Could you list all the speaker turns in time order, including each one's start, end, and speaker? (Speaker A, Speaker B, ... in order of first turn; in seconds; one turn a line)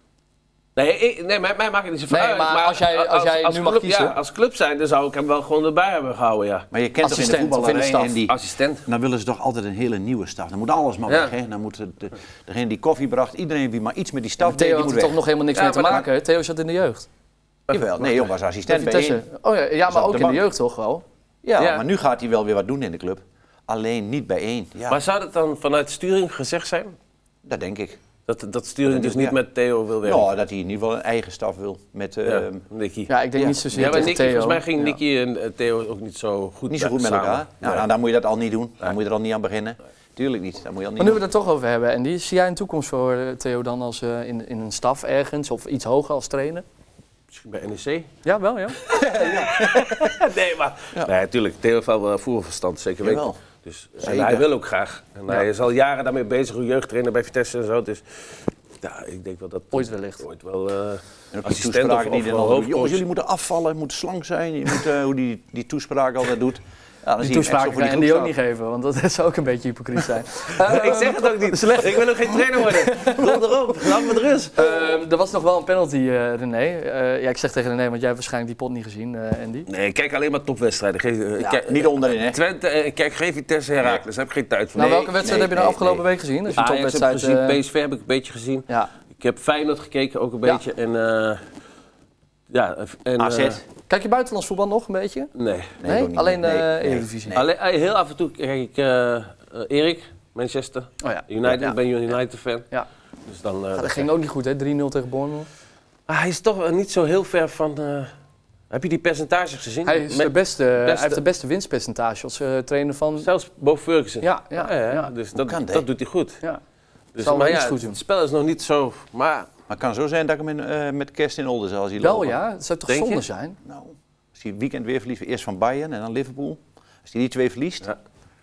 Speaker A: 0.8-6.7
Speaker B: 2.1-4.2
Speaker C: 6.7-15.2
Speaker B: 7.0-8.2
Speaker A: 8.3-8.8
Speaker A: 11.1-11.3
Speaker B: 14.4-17.1
Speaker A: 15.5-16.1
Speaker A: 17.7-18.2
Speaker C: 17.7-19.2
Speaker B: 18.7-21.0
Speaker C: 19.9-20.5
Speaker C: 21.4-25.0
Speaker A: 21.6-21.9
Speaker A: 24.9-26.9
Speaker C: 27.4-28.0
Speaker A: 28.3-30.3
Speaker C: 28.9-29.4
Speaker C: 30.0-32.6
Speaker A: 32.3-33.1
Speaker B: 33.1-35.0
Speaker C: 33.4-34.2
Speaker A: 33.7-37.8
Speaker C: 36.7-41.2
Speaker B: 41.0-46.6
Speaker A: 47.3-48.1
Speaker B: 48.2-48.8
Speaker A: 48.8-58.0
Speaker C: 49.0-50.2
Speaker C: 53.0-53.4
Speaker C: 54.0-54.5
Speaker A: 58.8-63.0
Speaker B: 59.7-60.2
Speaker C: 61.3-68.3
Speaker B: 67.2-79.7
Speaker A: 70.6-74.7
Speaker A: 79.7-85.1
Speaker C: 81.4-82.4
Speaker B: 84.8-87.6
Speaker C: 84.8-86.0
Speaker A: 86.5-88.7
Speaker A: 89.2-91.4
Speaker A: 92.5-93.6
Speaker C: 93.2-93.6
Speaker B: 93.9-95.3
Speaker A: 95.3-95.8
Speaker C: 95.8-97.5
Speaker B: 95.8-97.4
Speaker A: 97.3-102.7
Speaker B: 101.0-101.7
Speaker A: 103.3-104.1
Speaker B: 103.8-105.5
Speaker A: 106.1-108.1
Speaker A: 108.7-111.2
Speaker B: 109.9-113.3
Speaker A: 113.2-116.4
Speaker B: 114.2-115.1
Speaker C: 115.3-115.9
Speaker A: 117.1-119.5
Speaker B: 117.2-118.0
Speaker C: 119.7-122.4
Speaker B: 122.0-123.6
Speaker A: 122.9-123.2
Speaker C: 123.6-127.9